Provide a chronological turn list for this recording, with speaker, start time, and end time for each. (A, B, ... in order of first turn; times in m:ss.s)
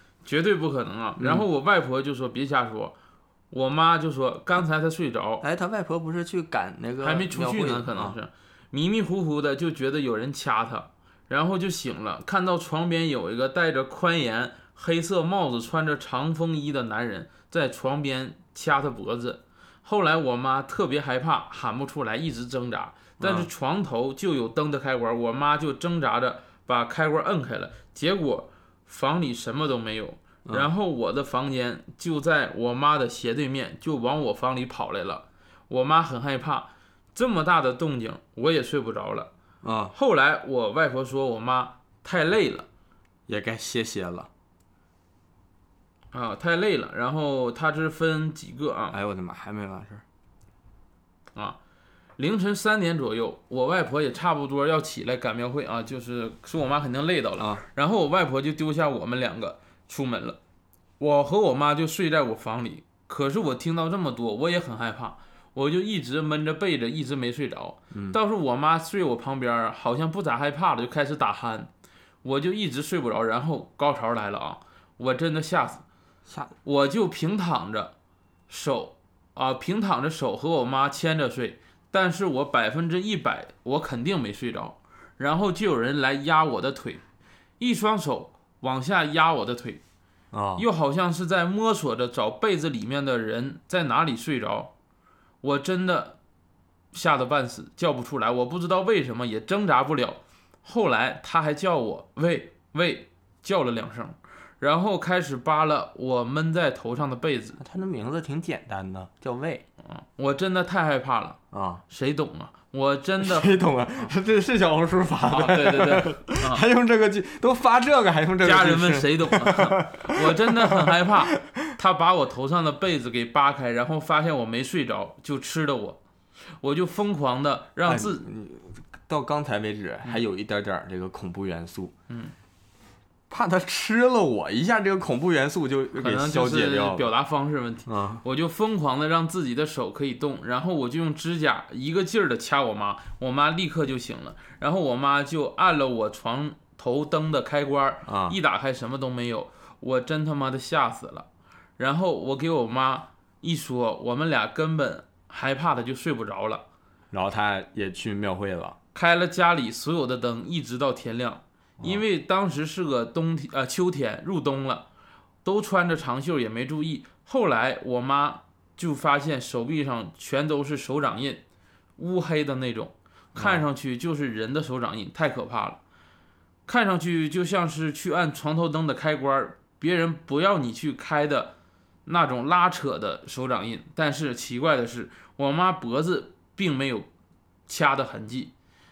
0:00.2-0:02.9 A
0:01.2-0:01.4 B
0:03.5-0:05.4 A
0:05.4-0:08.2 B
0:07.0-0:39.3 A
0:23.2-0:23.5 B
0:39.6-0:39.9 B
0:39.9-0:42.7 A
0:43.3-0:44.3 B
0:46.1-0:49.0 A
0:48.9-0:50.0 B
0:52.2-1:00.4 A
0:57.4-0:57.6 B
1:01.0-1:11.7 A
1:07.9-1:08.2 B
1:12.2-1:15.8 A
1:16.6-1:17.9 A
1:18.5-1:27.0 A
1:27.6-1:29.8 A
1:30.3-1:30.6 B
1:30.6-1:34.7 A
1:35.4-1:36.2 A
1:36.9-1:47.6 A
1:47.6-1:49.6 B
1:49.8-1:54.1 A
1:51.5-1:51.8 B
1:53.2-2:01.6 B
1:55.3-1:56.6 A
1:58.4-2:06.0 A
2:06.6-2:08.2 A
2:07.8-2:11.9 B
2:12.1-2:12.3 A
2:13.3-2:17.1 B
2:16.0-2:31.3 A
2:17.9-2:18.2 B
2:28.0-2:28.4 B
2:31.8-2:36.6 A
2:37.1-2:38.8 B
2:38.9-2:44.9 A
2:45.4-2:51.4 A
2:52.0-2:55.8 A
2:53.4-2:53.6 B
2:56.7-3:01.5 A
3:02.0-3:07.1 A
3:07.7-3:08.5 A